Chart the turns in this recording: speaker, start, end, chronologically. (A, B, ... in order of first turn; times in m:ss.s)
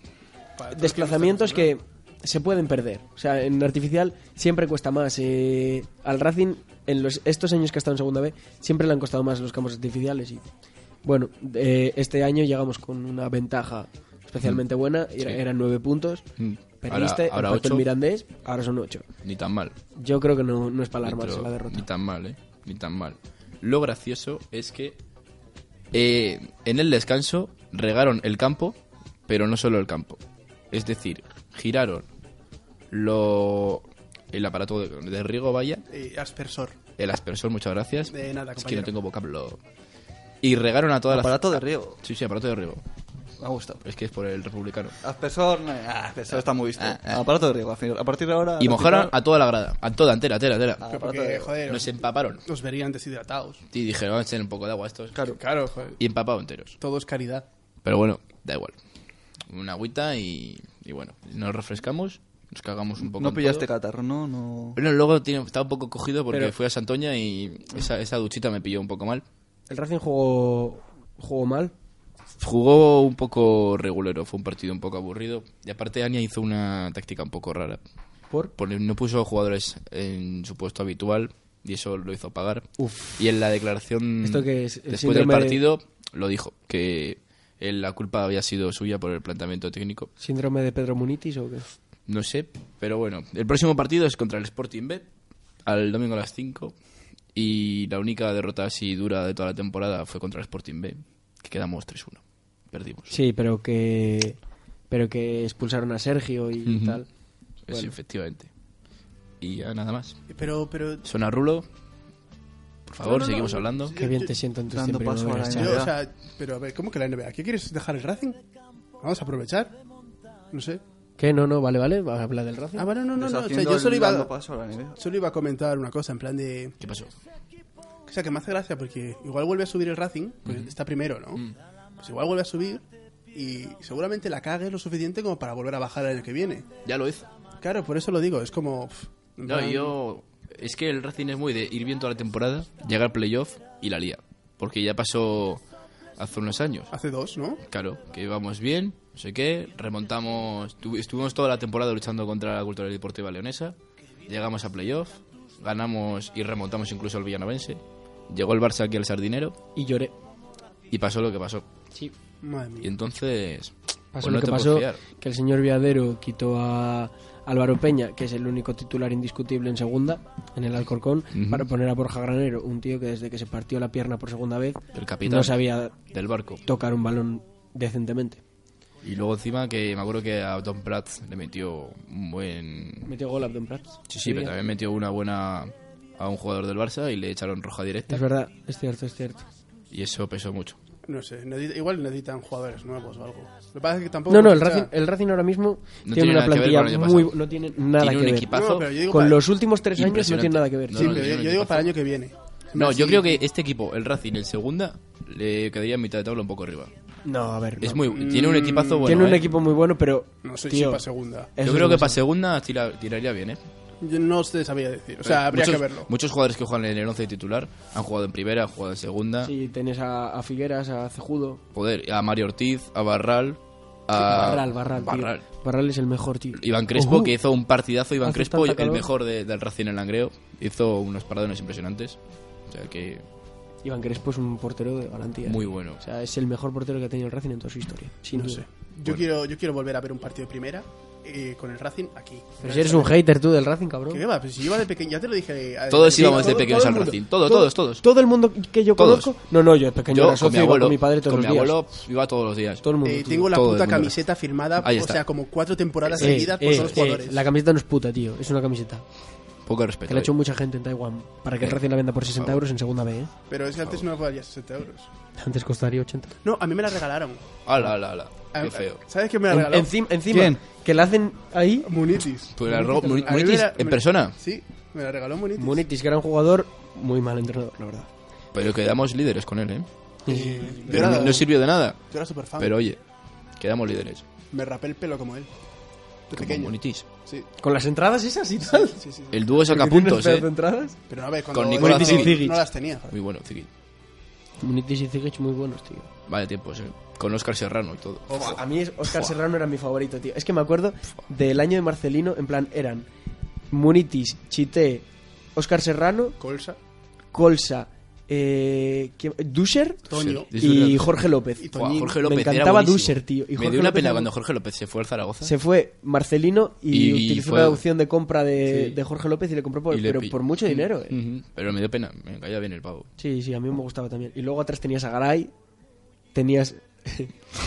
0:00.6-0:01.7 A
0:00.7-0:10.5 B
0:11.0-0:16.2 B
0:16.4-0:17.9 C
0:16.8-0:19.1 B
0:19.2-0:19.8 C
0:20.0-0:21.8 B
0:21.0-0:25.0 C
0:25.9-0:32.1 C
0:32.9-0:35.8 C
0:35.9-0:36.8 A
0:37.0-0:39.6 C
0:38.1-0:38.9 A
0:40.4-0:42.8 C
0:41.1-0:42.0 D
0:43.4-0:43.8 D
0:43.8-0:44.9 C
0:45.0-0:49.1 D
0:46.8-0:47.3 C
0:48.6-0:50.8 C
0:50.8-0:51.6 D
0:50.9-0:53.6 A
0:51.7-0:52.4 C
0:53.7-0:55.2 C
0:55.2-0:55.4 D
0:55.4-0:56.0 A
0:56.0-0:56.8 C
0:56.8-0:57.5 A
0:57.8-0:58.8 C
0:59.5-1:03.7 C
1:03.0-1:04.8 D
1:04.8-1:09.2 C
1:09.7-1:11.7 B
1:12.4-1:17.8 C
1:18.6-1:30.1 C
1:22.8-1:23.2 B
1:24.2-1:25.6 B
1:30.2-1:31.7 B
1:32.1-1:35.1 C
1:35.6-1:36.8 C
1:37.3-1:43.1 C
1:43.1-1:44.4 B
1:44.9-1:47.1 B
1:46.6-1:47.0 C
1:47.6-1:48.5 C
1:49.4-1:50.2 C
1:50.3-1:51.1 A
1:51.0-1:51.7 C
1:52.9-1:54.0 C
1:53.0-1:54.3 A
1:54.0-1:55.9 B
1:54.7-1:55.9 D
1:55.5-1:58.4 A
1:59.0-1:59.8 A
2:00.5-2:00.8 A
2:01.2-2:02.9 B
2:02.8-2:04.3 A
2:03.2-2:05.0 D
2:05.0-2:06.8 A
2:06.8-2:07.1 C
2:08.1-2:11.4 A
2:10.4-2:10.8 C
2:12.0-2:16.7 A
2:16.8-2:17.3 C
2:17.6-2:20.0 A
2:19.5-2:25.6 C
2:26.2-2:26.9 C
2:26.9-2:27.6 A
2:27.6-2:39.6 C
2:39.8-2:40.2 B
2:40.9-2:41.7 C
2:42.4-2:42.9 A
2:42.8-2:45.0 C
2:44.1-2:56.0 B
2:51.3-2:51.7 C
2:54.9-2:56.6 C
2:56.6-2:58.4 B
2:59.0-3:03.1 C
3:03.0-3:04.5 B
3:04.1-3:08.2 C
3:08.1-3:09.4 B
3:09.9-3:10.8 C
3:11.1-3:14.9 A
3:14.3-3:18.5 B
3:16.0-3:17.4 C
3:18.0-3:19.0 C
3:18.5-3:19.5 A
3:19.1-3:21.2 B
3:19.9-3:21.9 C
3:20.9-3:23.4 A
3:22.7-3:26.9 C
3:27.2-3:28.0 B
3:27.8-3:29.5 C
3:28.1-3:29.4 A
3:29.0-3:31.0 B
3:30.4-3:31.5 A
3:31.6-3:32.2 B
3:31.6-3:33.6 C
3:34.0-3:36.1 A
3:35.2-3:39.5 C
3:39.4-3:41.6 B
3:41.7-3:45.4 C
3:44.2-3:47.4 B
3:46.5-3:53.2 C
3:48.2-3:49.1 B
3:53.8-3:58.6 B
3:55.4-3:56.0 C
3:58.3-4:03.2 A
4:02.6-4:04.2 B
4:04.1-4:07.1 A
4:05.9-4:08.0 C
4:06.1-4:11.8 B
4:09.0-4:09.3 C
4:10.1-4:12.8 C
4:12.8-4:13.5 B
4:13.0-4:17.5 A
4:13.5-4:14.2 C
4:14.8-4:15.2 C
4:16.1-4:17.0 C
4:16.2-4:19.0 B
4:19.7-4:20.3 C
4:20.1-4:23.3 B
4:21.6-4:22.6 C
4:23.5-4:25.1 A
4:23.8-4:24.1 C
4:25.4-4:26.4 B
4:26.4-4:27.5 A
4:27.6-4:29.0 C
4:28.5-4:29.9 A
4:29.5-4:31.9 B
4:30.3-4:30.6 D
4:31.8-4:35.8 A
4:32.6-4:34.4 C
4:32.7-4:33.2 B
4:35.6-4:38.1 B
4:38.5-4:39.9 C
4:40.3-4:41.4 B
4:40.3-4:42.8 A
4:40.9-4:42.0 C
4:42.6-4:43.0 C
4:43.6-4:44.2 C
4:44.5-4:45.5 A
4:46.3-4:47.5 A
4:46.3-4:47.0 C
4:47.6-4:49.0 B
4:48.9-4:49.5 A
4:49.3-4:50.5 C
4:49.6-4:51.0 B
4:51.1-4:53.2 A
4:51.5-4:52.5 C
4:51.8-4:52.6 B
4:53.1-4:53.7 C
4:54.6-4:56.1 B
4:56.3-4:59.3 C
4:58.3-5:03.1 B
5:03.7-5:06.4 B
5:06.4-5:06.8 A
5:07.3-5:14.3 B
5:10.1-5:10.5 A
5:10.1-5:15.6 C
5:11.6-5:12.2 A
5:15.4-5:21.2 B
5:16.9-5:17.8 C
5:18.7-5:19.0 C
5:19.9-5:23.1 C
5:23.2-5:25.5 B
5:26.3-5:27.4 B